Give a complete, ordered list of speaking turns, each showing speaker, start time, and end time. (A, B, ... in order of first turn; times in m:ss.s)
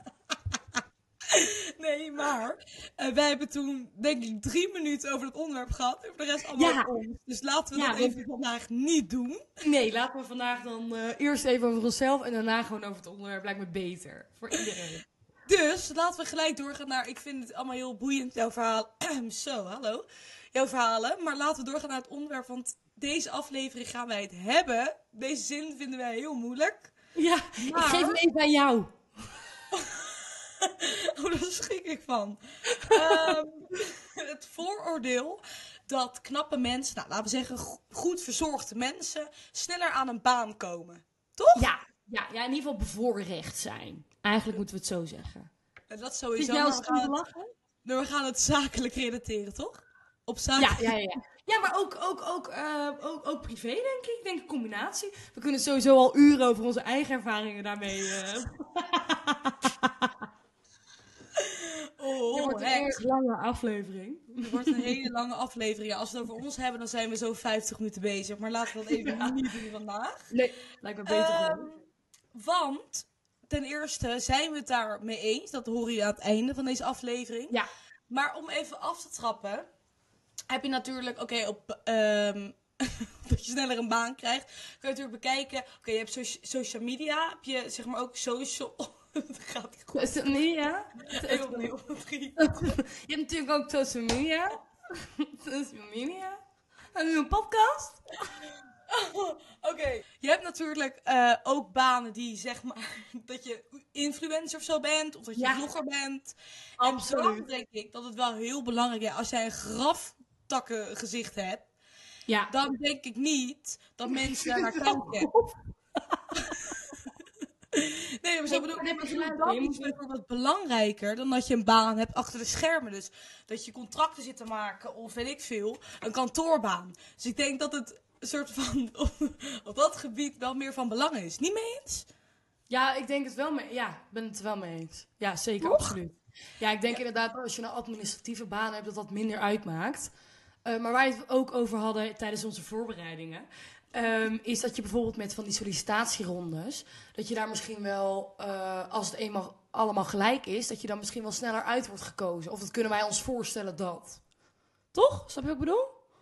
0:01.3-0:09.4 A
0:06.6-0:06.9 B
0:07.7-0:08.2 B
0:09.6-0:15.0 B
0:15.5-0:26.9 A
0:27.2-0:28.9 B
0:27.6-0:28.2 A
0:29.7-0:41.6 A
0:32.8-0:33.3 B
0:41.5-0:45.5 B
0:45.9-0:47.1 A
0:46.4-0:47.5 B
0:47.8-0:50.9 A
0:50.6-1:00.1 B
1:01.4-1:02.9 A
1:02.3-1:04.9 B
1:04.4-1:10.3 A
1:08.9-1:09.4 B
1:10.3-1:11.7 B
1:11.0-1:11.8 A
1:12.3-1:17.6 A
1:18.1-1:19.7 A
1:20.5-1:30.0 A
1:29.9-1:31.7 B
1:31.1-1:32.7 A
1:32.4-1:36.4 B
1:36.9-1:38.1 B
1:38.9-1:51.6 A
1:45.4-1:45.7 B
1:46.8-1:47.4 B
1:52.3-1:52.5 B
1:52.5-1:55.3 A
1:54.1-1:55.5 B
1:56.3-1:56.8 B
1:57.7-2:12.1 A
1:58.5-2:00.0 B
2:12.7-2:20.1 B
2:15.6-2:16.0 A
2:20.6-2:34.2 B
2:34.9-2:35.9 B